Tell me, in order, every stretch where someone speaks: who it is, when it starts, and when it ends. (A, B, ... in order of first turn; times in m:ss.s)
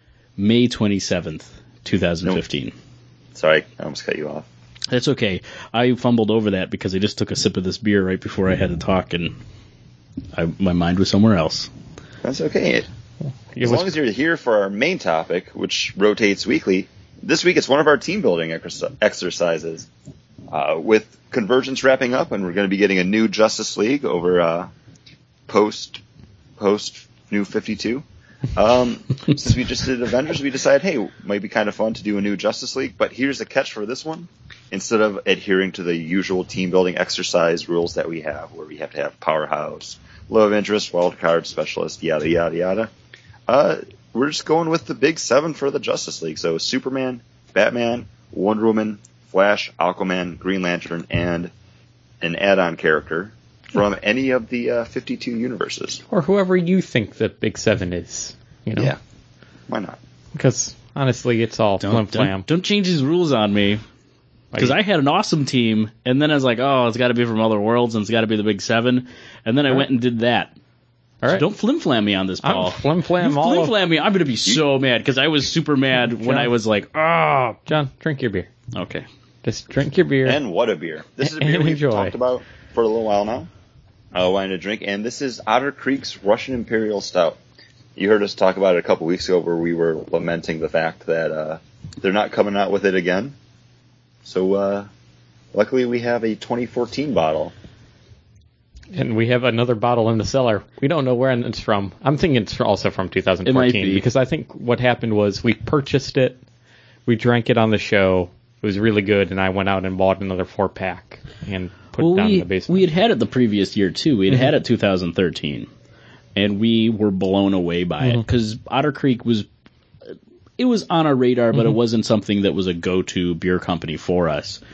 0:00.4-0:02.7 A
0:03.4-0:04.5 B
0:04.9-0:09.4 A
0:10.3-0:11.7 A
0:12.2-0:12.9 B
0:13.5-0:13.9 C
0:13.6-0:19.9 B
0:20.5-0:24.7 B
0:25.5-0:26.0 B
0:26.6-0:42.9 B
0:43.5-0:51.5 B
0:52.2-0:56.0 B
0:56.1-0:58.9 C
0:59.7-1:00.0 B
1:00.3-1:02.4 C
1:01.8-1:03.8 A
1:04.6-1:10.5 A
1:11.3-1:17.6 A
1:12.4-1:13.7 C
1:16.2-1:16.5 C
1:17.6-1:18.5 C
1:18.8-1:19.1 A
1:19.4-1:20.4 C
1:20.2-1:23.5 B
1:21.2-1:22.2 C
1:24.1-1:27.4 B
1:28.0-1:33.4 B
1:34.2-1:34.9 B
1:35.5-1:37.5 B
1:38.9-1:46.4 C
1:43.5-1:44.1 A
1:47.1-1:52.8 C
1:52.0-1:55.7 A
1:56.4-1:59.5 A
2:00.1-2:04.6 A